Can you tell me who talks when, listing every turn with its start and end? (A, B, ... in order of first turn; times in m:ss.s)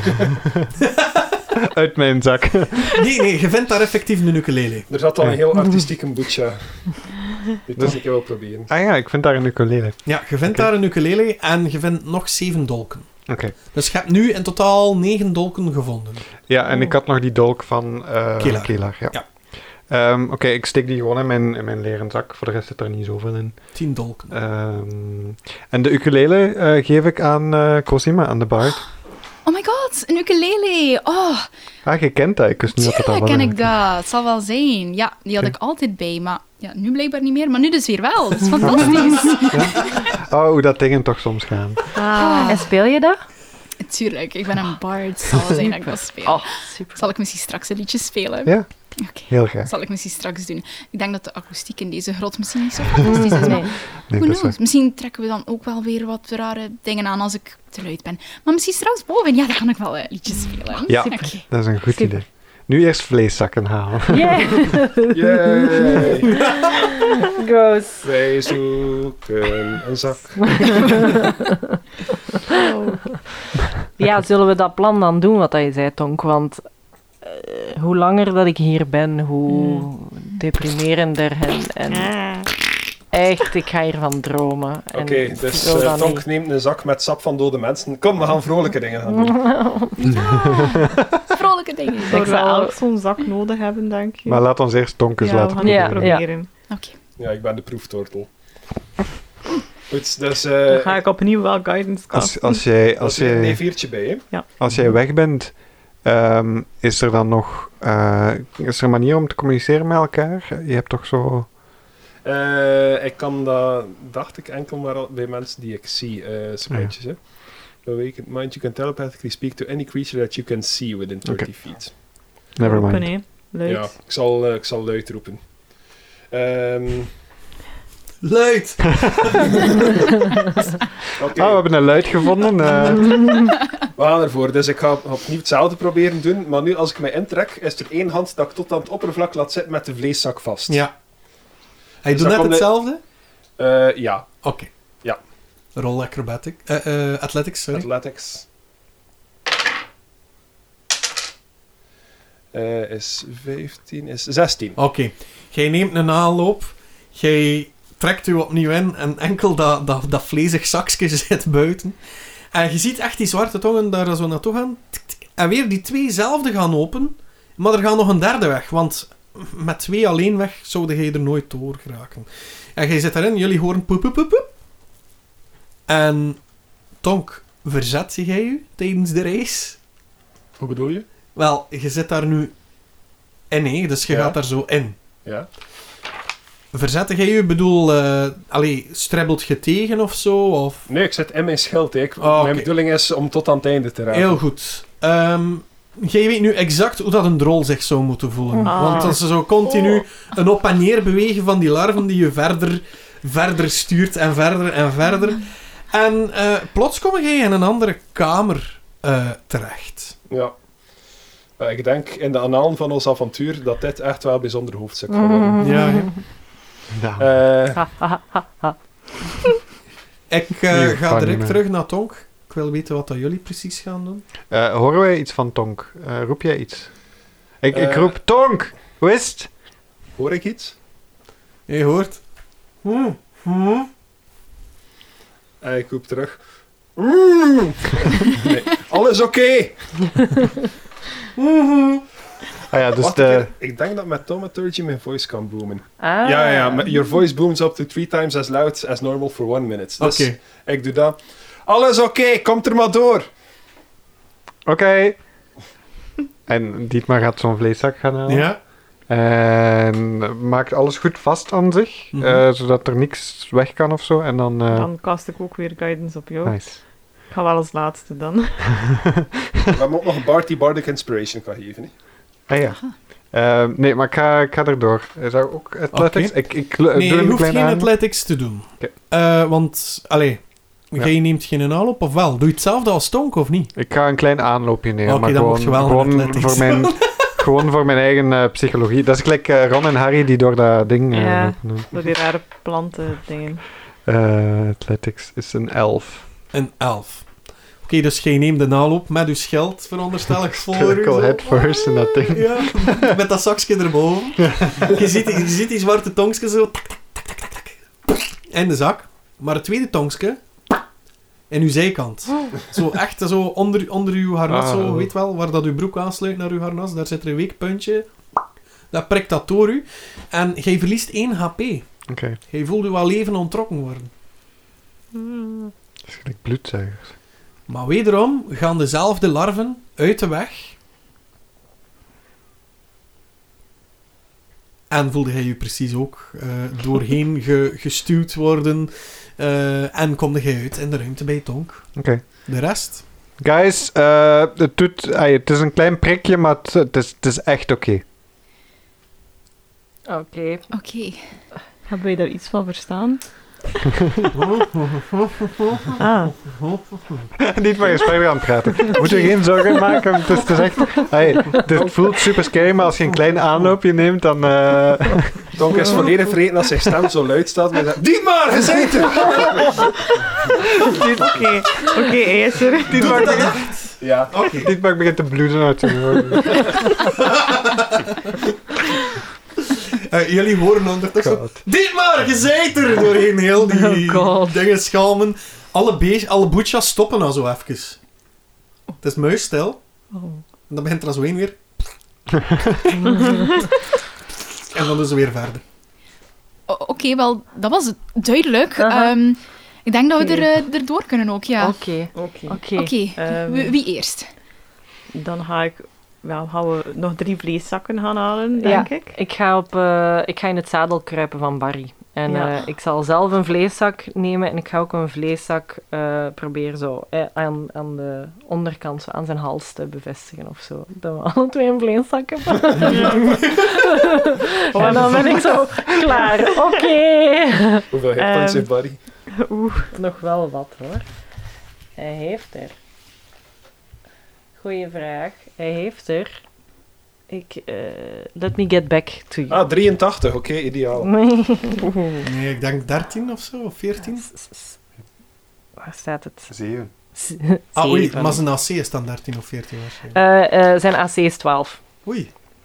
0:00.8-0:01.3 A
0:01.6-0:03.0 B
0:02.8-0:04.9 A
0:04.9-0:07.1 C
0:07.6-0:08.7 C
0:07.8-0:08.0 B
0:08.7-0:10.7 B
0:10.1-0:13.1 A
0:13.3-0:13.6 B
0:13.7-0:16.3 A
0:16.5-0:23.7 B
0:16.7-0:16.9 D
0:18.4-0:19.2 A
0:23.7-0:24.3 A
0:24.3-0:28.9 B
0:29.4-0:31.5 E
0:31.8-0:33.8 B
0:32.8-0:39.9 E
0:38.6-0:41.8 B
0:41.9-0:42.6 D
0:42.2-0:42.6 E
0:42.5-0:43.2 F
0:43.8-1:01.4 E
0:46.2-0:47.0 F
0:48.4-0:49.7 B
0:53.0-0:53.7 F
0:54.1-0:54.6 B
1:00.9-1:04.7 B
1:01.9-1:02.2 F
1:04.1-1:06.1 F
1:05.1-1:06.3 C
1:06.7-1:08.1 F
1:08.0-1:11.1 C
1:10.6-1:11.1 F
1:12.5-1:13.1 D
1:14.0-1:16.7 F
1:17.2-1:22.1 F
1:19.5-1:19.9 D
1:21.9-1:22.5 D
1:23.1-1:26.2 F
1:24.9-1:29.6 C
1:29.1-1:30.0 F
1:30.0-1:32.3 E
1:32.1-1:32.7 F
1:32.1-1:34.4 D
1:34.3-1:36.1 B
1:35.2-1:36.5 D
1:35.6-1:36.3 F
1:36.7-1:37.0 E
1:37.2-1:38.3 C
1:39.9-1:41.0 C
1:40.7-1:42.6 D
1:42.1-1:43.8 B
1:43.0-1:44.3 C
1:44.6-1:51.5 B
1:52.2-2:02.0 C
2:01.2-2:02.0 B
2:02.6-2:03.2 B
2:02.6-2:04.0 D
2:03.6-2:07.1 C
2:08.2-2:09.6 A
2:11.2-2:11.7 C
2:11.3-2:13.4 B
2:14.0-2:20.8 C
2:20.7-2:20.9 A
2:22.0-2:23.0 A
2:22.1-2:22.7 C
2:23.6-2:24.3 C
2:24.4-2:24.7 A
2:25.8-2:27.9 A
2:27.7-2:28.4 C
2:32.5-2:34.8 C
2:34.8-2:42.0 A
2:42.5-2:54.5 A
2:55.9-2:59.8 A
3:00.6-3:01.1 C
3:01.3-3:02.6 A
3:03.5-3:05.0 A
3:04.1-3:04.4 C
3:06.7-3:10.9 A
3:10.9-3:14.4 C
3:12.2-3:12.7 A
3:14.1-3:30.2 A
3:18.6-3:19.9 D
3:30.3-3:30.6 C
3:31.6-3:35.8 C
3:35.1-3:36.1 F
3:35.6-3:36.2 A
3:36.9-3:37.3 B
3:37.2-3:37.8 C
3:37.8-3:38.8 F
3:40.3-3:44.3 A
3:40.7-3:41.6 B
3:44.5-3:47.1 B
3:47.6-3:49.5 B
3:47.7-3:48.2 C
3:50.2-3:50.8 C
3:51.7-3:52.2 A
3:52.8-3:53.9 A
3:55.6-3:56.4 C
3:57.0-4:00.3 C
4:01.4-4:02.1 A
4:02.7-4:03.5 B
4:03.0-4:13.3 C
4:06.0-4:07.0 F
4:10.0-4:10.4 A
4:14.7-4:15.2 B
4:16.5-4:24.9 B
4:18.3-4:18.6 A
4:22.1-4:22.4 A
4:24.7-4:28.7 D
4:26.4-4:26.8 B
4:29.7-4:31.9 C
4:32.5-4:38.0 B
4:35.9-4:43.7 A
4:43.8-4:51.9 B
4:45.1-4:47.3 A
4:51.1-4:53.6 D
4:54.0-4:56.3 B
4:56.5-5:01.5 A
5:00.5-5:03.0 B
5:02.3-5:10.4 A
5:04.5-5:04.9 B
5:11.5-5:18.1 A
5:14.5-5:15.1 B
5:18.9-5:21.9 A
5:22.1-5:22.4 B
5:22.5-5:24.1 A
5:25.2-5:25.7 D
5:26.1-5:27.1 B
5:27.7-5:30.8 A
5:34.9-5:43.0 A
5:42.0-5:42.4 B
5:43.4-5:48.0 B
5:50.1-5:50.7 F
5:50.7-5:51.3 E
5:51.9-5:53.2 D
5:54.3-5:57.3 A
5:56.0-5:56.4 D
5:57.4-6:05.5 B
5:58.9-5:59.4 D
6:05.5-6:09.7 C
6:10.9-6:11.5 B
6:11.2-6:13.3 D
6:12.9-6:13.8 B
6:12.9-6:14.7 A
6:14.0-6:14.3 C
6:14.6-6:16.9 B
6:17.0-6:18.3 A
6:19.7-6:28.0 A
6:21.2-6:21.6 B
6:23.8-6:24.6 D
6:29.0-6:29.8 A
6:30.1-6:30.4 D
6:30.7-6:31.8 A
6:33.0-6:33.6 F
6:33.1-6:33.7 D
6:34.7-6:35.6 A
6:36.7-6:41.8 E
6:38.8-6:39.1 F
6:41.6-6:43.0 F
6:42.1-6:42.6 D
6:42.8-6:44.3 E
6:43.2-6:43.8 D
6:45.1-6:49.2 D
6:48.6-7:07.8 F
6:52.3-6:52.6 D
7:02.8-7:03.3 D
7:04.7-7:06.6 D
7:07.9-7:09.0 C
7:08.2-7:08.7 D
7:09.3-7:09.9 D
7:09.9-7:11.0 F
7:12.0-7:12.8 F
7:14.6-7:16.4 F
7:17.3-7:19.6 F
7:19.5-7:21.2 C
7:21.1-7:21.9 F
7:22.2-7:24.3 A
7:24.3-7:24.8 F
7:25.8-7:26.6 F
7:26.5-7:26.9 B
7:27.1-7:28.4 F
7:27.8-7:30.2 A
7:30.1-7:31.8 F
7:32.0-7:32.3 A